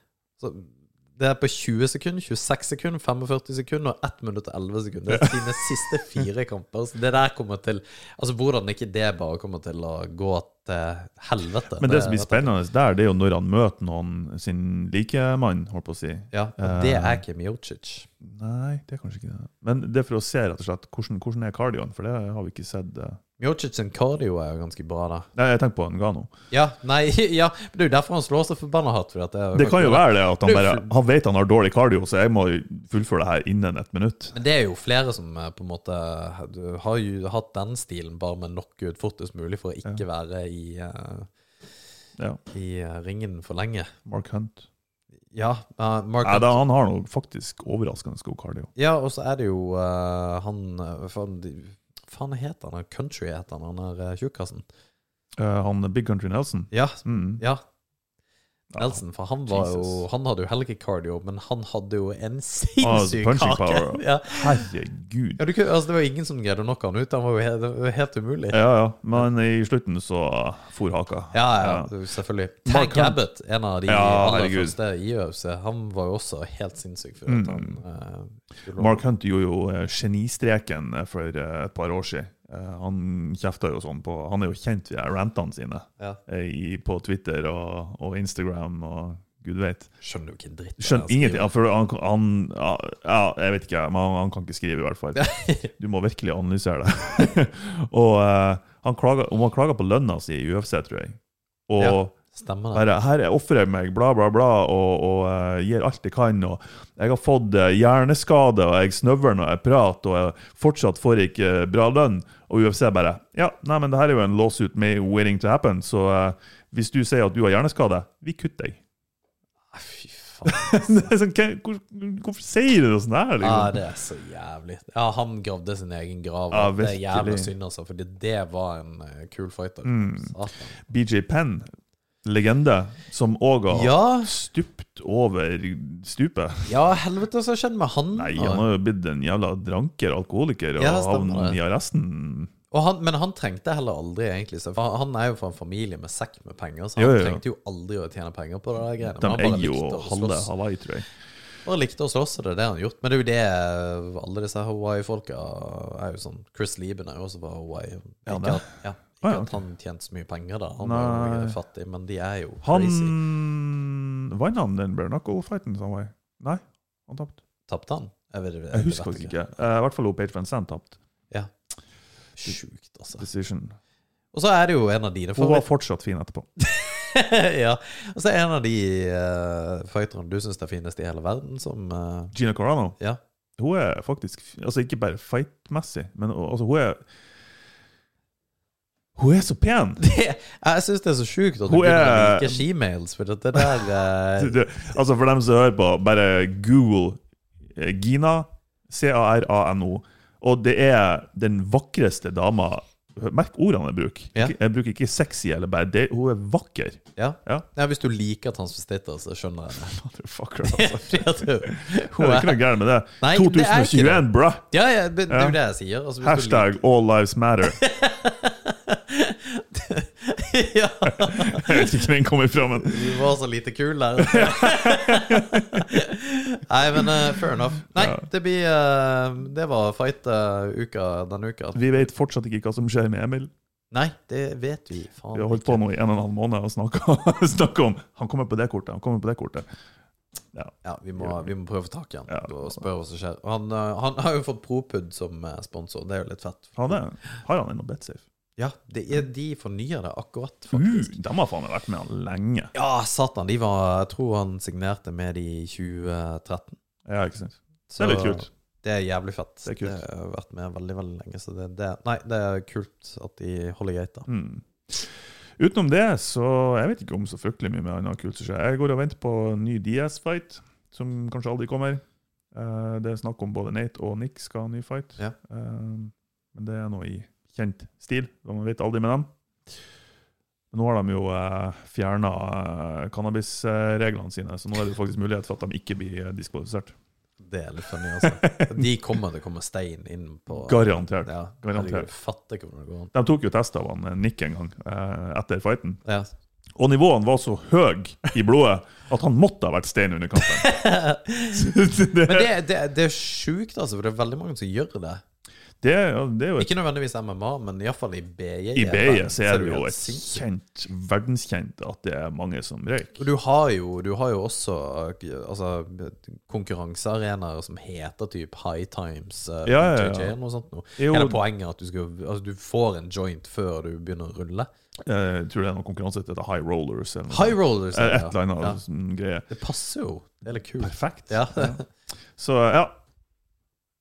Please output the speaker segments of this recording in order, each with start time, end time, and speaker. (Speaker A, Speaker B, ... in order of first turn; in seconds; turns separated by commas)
Speaker A: 0.4-12.6, Speaker B: 5.1-5.6, Speaker B: 11.8-17.2, Speaker A: 16.3-18.1, Speaker B: 18.2-23.2, Speaker A: 23.4-25.3, Speaker B: 25.4-26.3, Speaker A: 26.5-30.9, Speaker B: 29.5-34.4, Speaker A: 34.3-41.3, Speaker A: 42.5-43.9, Speaker B: 44.0-44.7, Speaker A: 45.3-46.6, Speaker B: 46.2-48.7, Speaker A: 48.8-54.6, Speaker B: 55.4-57.4, Speaker A: 56.7-57.6, Speaker B: 58.7-60.0, Speaker A: 58.8-64.7, Speaker B: 62.8-65.4, Speaker A: 65.4-68.6, Speaker B: 68.5-71.9, Speaker A: 71.3-79.0, Speaker B: 72.6-73.2, Speaker B: 73.9-74.8, Speaker B: 77.3-77.8, Speaker B: 78.8-89.9, Speaker A: 90.0-91.5, Speaker B: 90.8-102.2, Speaker A: 95.2-95.7, Speaker A: 101.8-102.8, Speaker B: 102.7-118.8, Speaker A: 119.7-121.1, Speaker B: 120.4-123.8, Speaker A: 123.4-130.8, Speaker B: 126.5-127.5, Speaker B: 129.8-130.3, Speaker B: 130.9-131.7, Speaker B: 132.2-136.7, Speaker A: 133.7-134.3, Speaker A: 136.7-138.6, Speaker B: 138.2-142.5, Speaker A: 140.8-141.6, Speaker A: 142.7-150.5, Speaker B: 147.0-147.4, Speaker B: 149.1-151.1, Speaker A: 151.6-163.2, Speaker B: 158.3-158.7, Speaker B: 159.2-159.6, Speaker B: 160.8-161.6, Speaker B: 162.6-167.4, Speaker A: 167.7-169.4, Speaker B: 168.7-171.0, Speaker A: 172.3-173.2, Speaker B: 173.2-173.8, Speaker A: 174.3-175.7, Speaker B: 175.4-176.4, Speaker A: 176.6-182.3, Speaker B: 182.3-182.9, Speaker B: 183.6-187.0, Speaker B: 189.2-190.0, Speaker A: 190.0-194.9, Speaker B: 191.7-192.7, Speaker B: 193.5-197.2, Speaker B: 197.7-207.7, Speaker A: 207.2-209.9, Speaker B: 209.8-214.7, Speaker A: 210.7-212.6, Speaker A: 213.2-216.8, Speaker B: 215.3-215.6, Speaker B: 216.2-217.8, Speaker A: 217.7-222.0, Speaker B: 221.1-223.2, Speaker A: 222.8-232.1, Speaker B: 224.2-226.0, Speaker B: 226.9-227.4, Speaker B: 227.9-228.2, Speaker B: 231.7-233.5, Speaker A: 233.9-235.8, Speaker B: 235.3-239.7, Speaker B: 240.5-241.5, Speaker A: 240.8-247.0, Speaker B: 242.3-242.8, Speaker B: 246.8-248.2, Speaker A: 248.6-251.2, Speaker B: 250.7-252.7, Speaker A: 252.7-256.8, Speaker B: 257.1-258.5, Speaker A: 257.9-264.3, Speaker B: 259.6-260.0, Speaker B: 264.3-272.0, Speaker B: 272.5-279.3, Speaker B: 280.7-286.9, Speaker A: 287.4-293.1, Speaker B: 288.2-288.9, Speaker B: 290.5-292.1, Speaker B: 293.1-296.0, Speaker A: 296.0-296.3, Speaker B: 296.8-300.7, Speaker A: 300.4-301.7, Speaker B: 301.5-302.5, Speaker A: 302.2-305.2, Speaker B: 305.8-306.7, Speaker A: 306.6-310.4, Speaker B: 308.7-313.2, Speaker A: 313.2-324.7, Speaker B: 319.6-320.3, Speaker B: 321.0-321.4, Speaker B: 325.1-329.5, Speaker A: 327.3-328.8, Speaker A: 329.5-331.9, Speaker B: 330.8-331.8, Speaker B: 332.4-333.0